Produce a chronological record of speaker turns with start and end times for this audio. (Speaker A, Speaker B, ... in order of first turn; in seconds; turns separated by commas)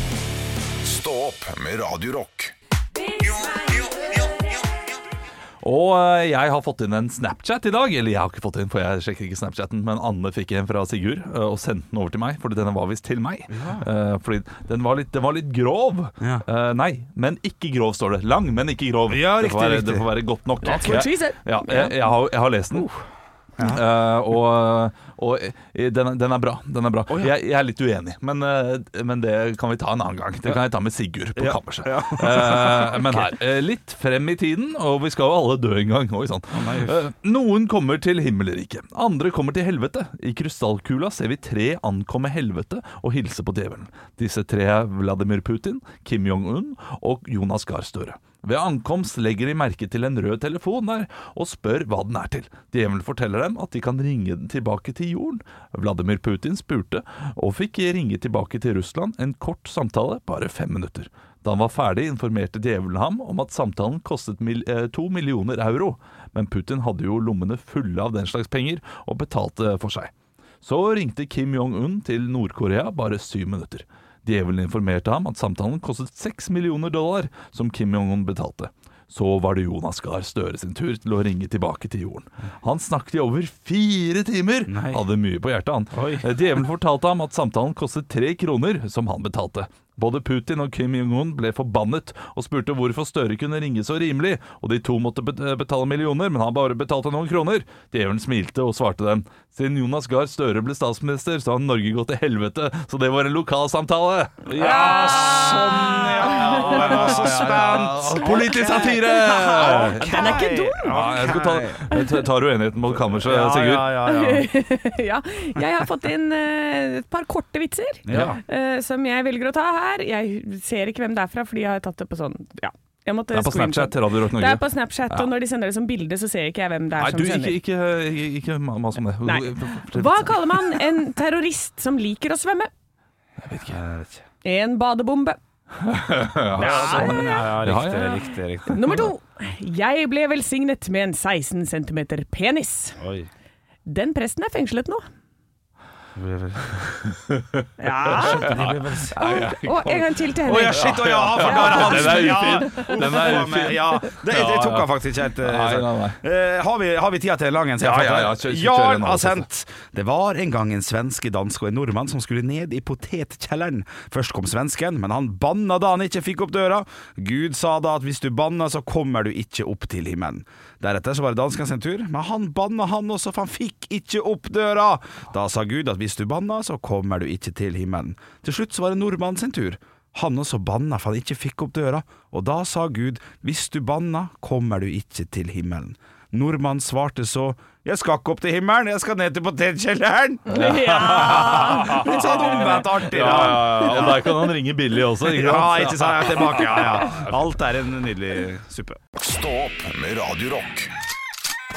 Speaker A: 0.8-2.5, Speaker B: 5.6-23.0, Speaker C: 13.5-13.9, Speaker C: 19.1-20.1, Speaker D: 20.6-21.9, Speaker B: 23.6-114.1, Speaker C: 31.4-33.3, Speaker C: 36.5-37.0, Speaker C: 84.7-85.0, Speaker C: 85.9-86.3, Speaker C: 104.5-111.9, Speaker D: 104.6-107.0, Speaker D: 108.2-111.2, Speaker C: 113.1-114.5, Speaker D: 114.0-127.6, Speaker C: 118.0-118.4, Speaker B: 118.1-118.4, Speaker B: 123.3-125.3, Speaker B: 127.0-130.8, Speaker D: 129.2-132.7, Speaker B: 133.4-133.8, Speaker C: 133.7-134.2, Speaker D: 134.4-135.4, Speaker B: 135.8-139.1, Speaker C: 136.6-139.0, Speaker D: 136.6-138.1, Speaker D: 138.7-143.0, Speaker C: 143.0-143.3, Speaker D: 143.9-145.0, Speaker C: 146.1-146.8, Speaker B: 146.8-156.2, Speaker D: 147.8-148.6, Speaker C: 147.8-149.2, Speaker D: 149.1-153.2, Speaker C: 150.4-194.3, Speaker B: 157.8-159.4, Speaker D: 190.4-194.3, Speaker B: 190.5-197.2, Speaker C: 195.2-199.0, Speaker A: 199.2-200.9